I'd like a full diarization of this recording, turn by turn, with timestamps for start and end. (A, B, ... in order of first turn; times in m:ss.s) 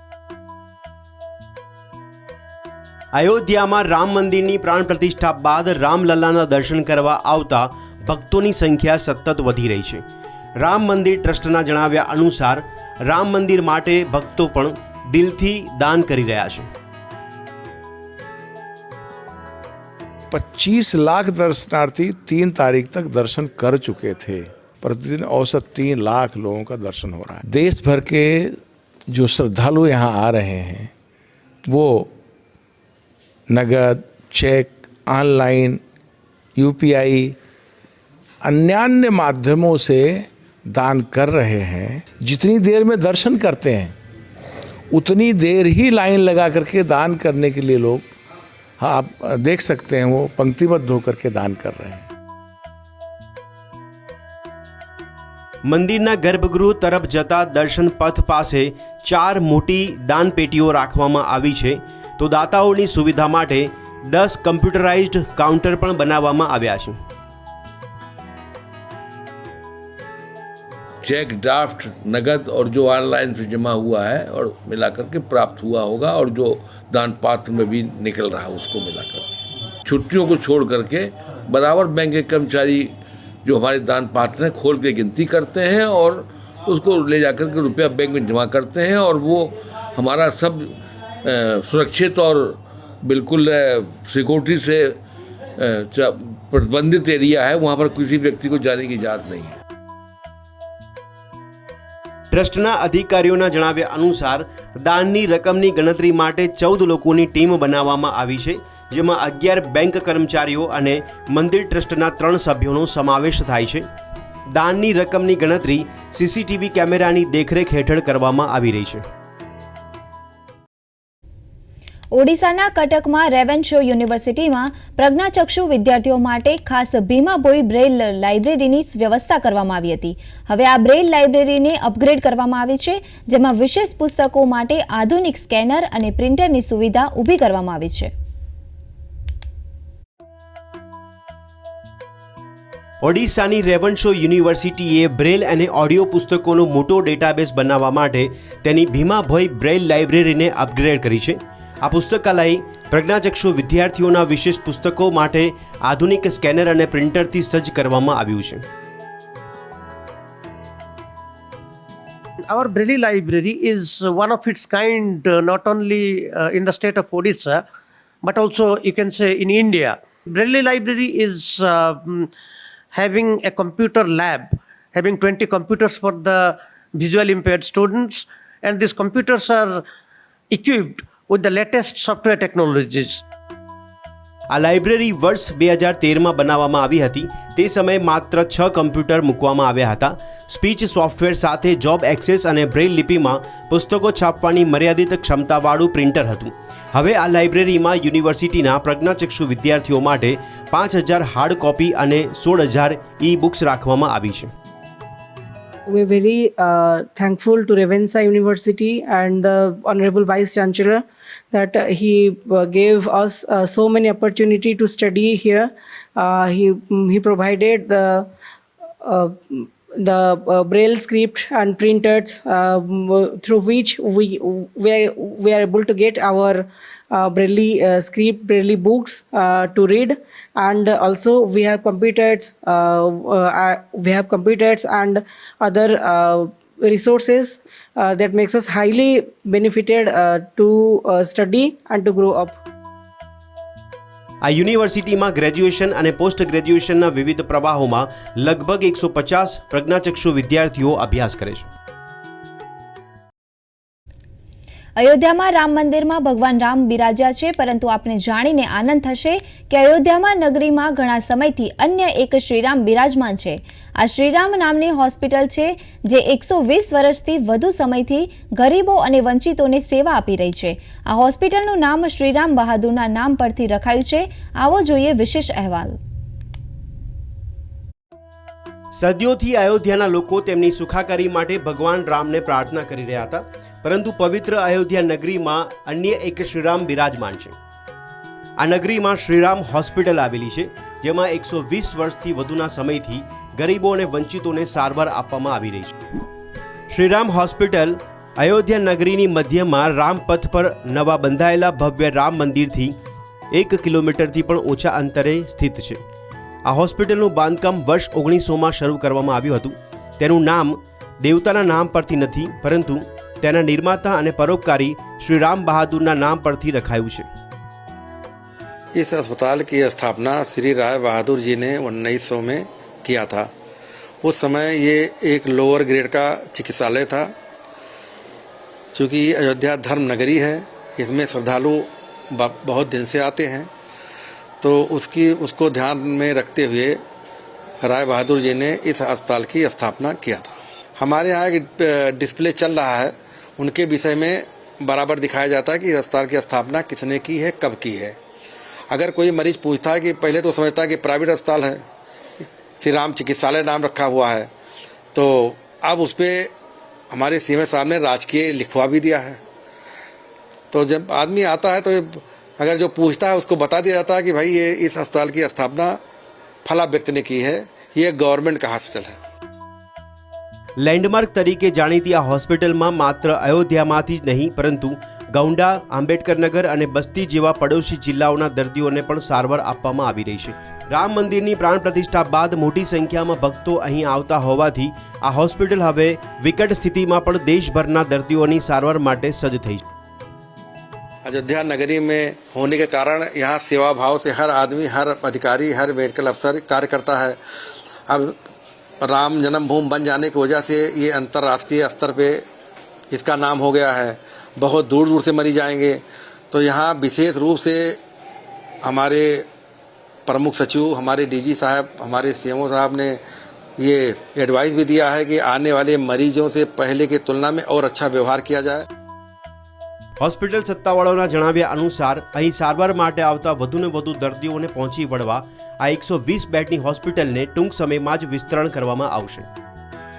0:03.2-0:10.0 A
0:10.6-0:16.7 A
0:20.3-0:30.9 B
0:31.6-0:32.1 B
0:33.5-0:35.8 B
0:36.6-0:37.4 B
0:38.4-0:44.0 B
0:44.9-0:48.1 B
0:48.8-0:52.1 B
0:55.7-1:07.0 A
1:11.0-1:19.3 C
1:19.8-1:22.9 C
1:23.4-1:35.0 C
1:35.6-1:39.6 C
1:42.3-1:53.9 A
1:54.5-1:59.0 A
2:02.1-2:18.1 D
2:23.0-2:38.6 A
2:42.5-2:47.6 E
2:48.2-2:52.3 E
2:52.9-2:59.8 E
3:00.5-3:03.2 E
3:04.5-3:24.5 A
3:25.9-3:38.3 F
3:39.0-4:02.6 F
4:04.4-4:11.7 A
4:15.0-4:36.0 D
4:38.9-4:47.6 A
4:48.6-4:56.0 A
4:56.9-5:03.0 A
5:03.5-5:06.0 A
5:06.7-5:17.3 A
5:18.9-5:23.5 G
5:24.2-5:27.3 G
5:28.9-5:33.7 G
5:34.6-5:37.0 G
5:37.8-5:48.2 G
5:48.9-5:51.8 G
5:52.8-5:54.5 G
5:55.1-5:56.5 G
5:57.1-5:59.4 G
6:00.7-6:06.0 G
6:06.6-6:09.2 G
6:10.8-6:29.9 A
6:31.2-6:37.4 G
6:38.1-6:38.4 G
6:39.0-6:42.4 G
6:43.1-6:48.0 G
6:48.8-6:49.5 G
6:50.3-6:53.2 G
6:53.8-6:58.9 G
7:00.2-7:09.5 A